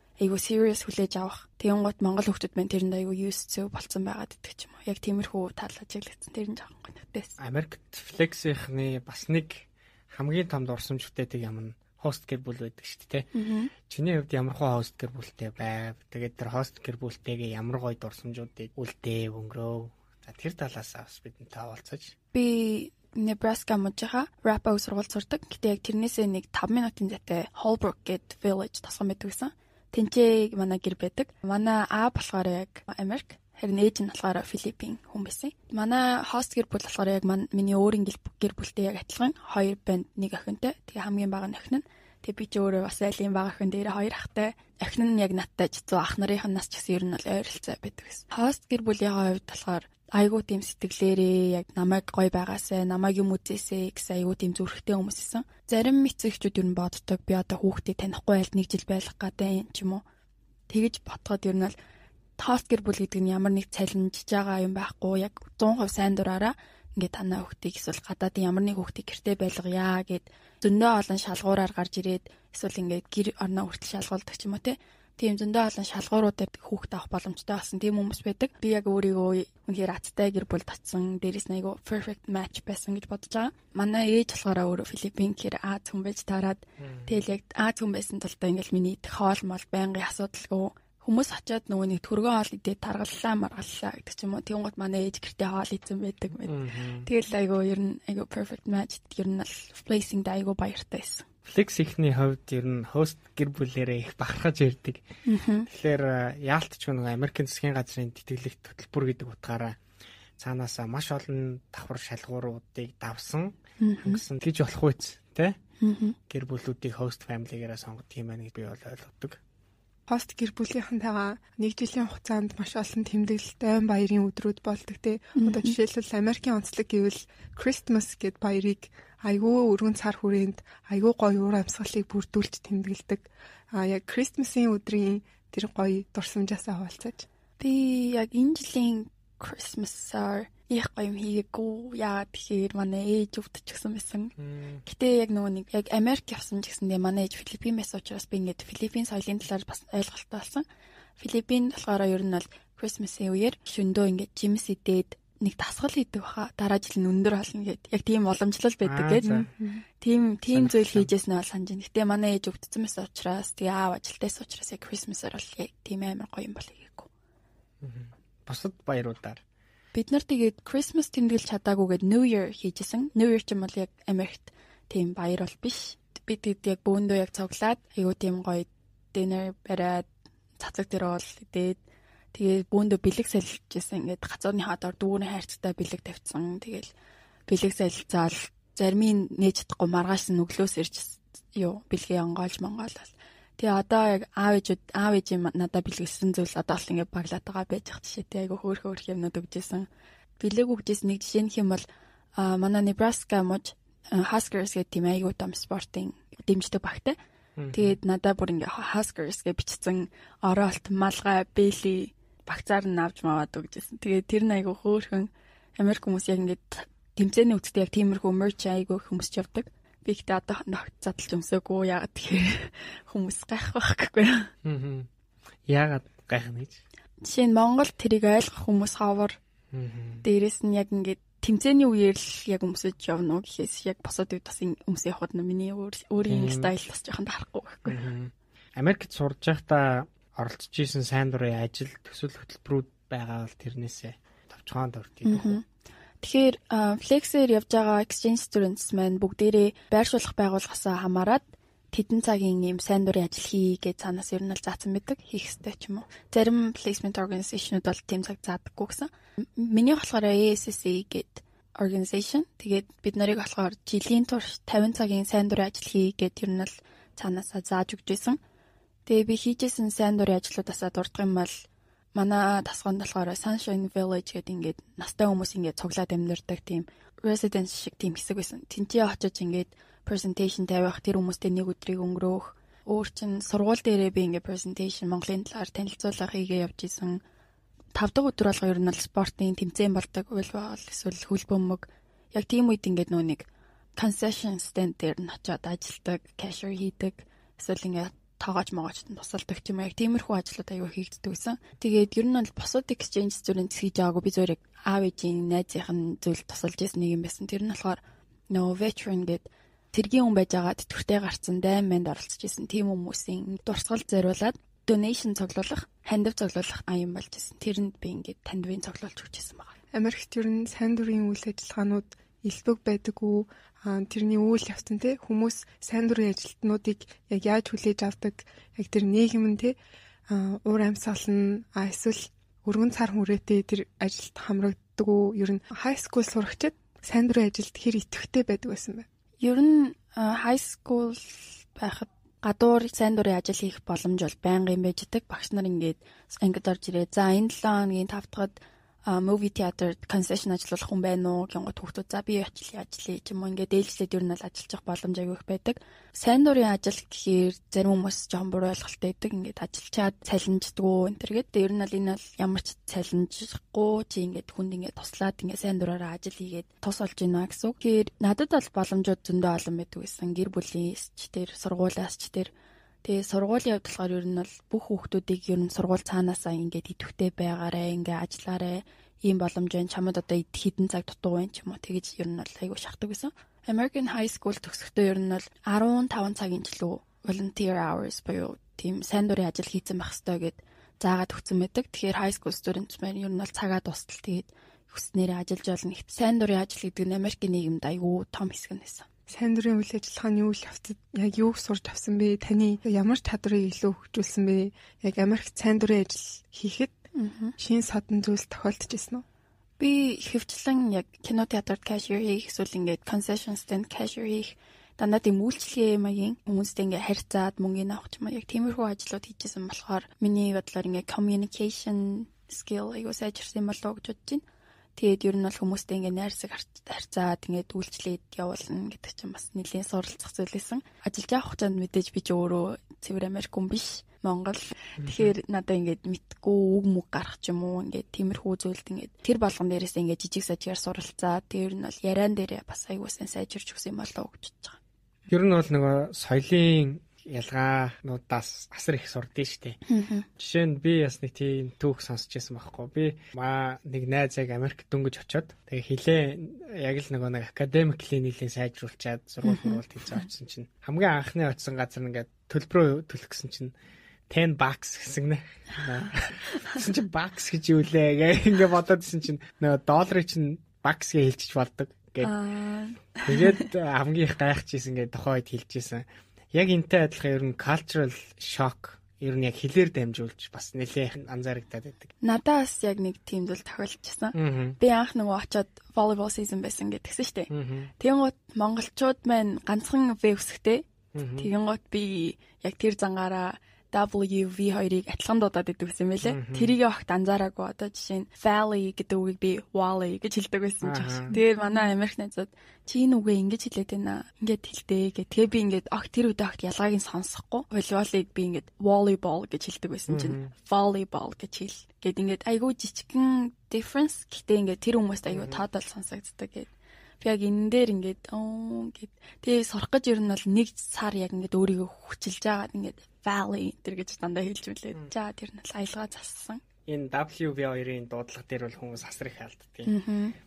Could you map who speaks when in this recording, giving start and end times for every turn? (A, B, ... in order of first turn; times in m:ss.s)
0:00.2-0:07.4 A
0:07.4-0:13.3 B
0:13.3-0:13.7 A
0:13.9-0:22.1 B
0:22.3-1:00.0 A
1:00.7-1:01.7 A
1:02.4-1:41.3 A
1:26.8-1:27.1 B
1:36.5-1:37.1 B
1:41.5-1:45.0 B
1:45.3-1:45.7 A
1:45.7-1:49.8 B
1:50.4-1:55.6 B
1:53.8-1:54.2 A
1:55.8-1:56.2 A
1:56.3-1:59.4 B
2:00.1-2:17.3 C
2:05.4-2:05.8 A
2:17.6-2:30.7 A
2:24.4-2:24.8 B
2:31.2-2:47.1 A
2:38.8-2:39.5 B
2:40.5-2:41.1 B
2:47.8-2:49.4 B
2:49.9-3:00.1 A
3:00.6-3:01.8 A
3:02.3-3:06.9 A
3:07.5-3:19.9 A
3:20.4-3:21.9 A
3:22.4-3:27.2 A
3:27.6-3:28.0 B
3:27.7-3:44.5 A
3:44.6-3:45.1 B
3:45.7-3:46.8 B
3:47.2-3:49.4 A
3:49.7-3:50.2 B
3:50.2-3:58.0 A
3:56.2-3:56.7 B
3:57.9-4:05.6 B
4:05.2-4:05.6 A
4:06.2-4:28.4 A
4:29.1-4:47.2 A
4:47.9-5:19.8 A
5:19.9-5:29.8 C
5:30.3-5:39.1 C
5:39.4-6:12.5 A
6:13.0-6:39.1 A
6:39.3-6:47.0 C
6:47.2-6:47.6 A
6:47.6-6:49.2 C
6:49.8-7:04.4 A
7:05.0-7:24.8 A
7:15.0-7:15.3 B
7:25.3-7:29.8 B
7:29.9-7:30.3 A
7:30.4-7:43.7 B
7:39.4-7:39.8 A
7:44.3-7:52.3 B
7:52.2-7:53.7 A
7:53.2-8:02.1 B
8:02.2-8:10.8 A
8:04.4-8:04.8 B
8:07.5-8:07.9 B
8:11.2-8:11.5 B
8:11.4-8:36.7 A
8:16.2-8:16.8 B
8:20.8-8:21.4 B
8:30.1-8:30.5 B
8:35.3-8:35.6 B
8:37.2-8:46.6 A
8:46.9-8:49.9 B
8:49.9-8:50.4 A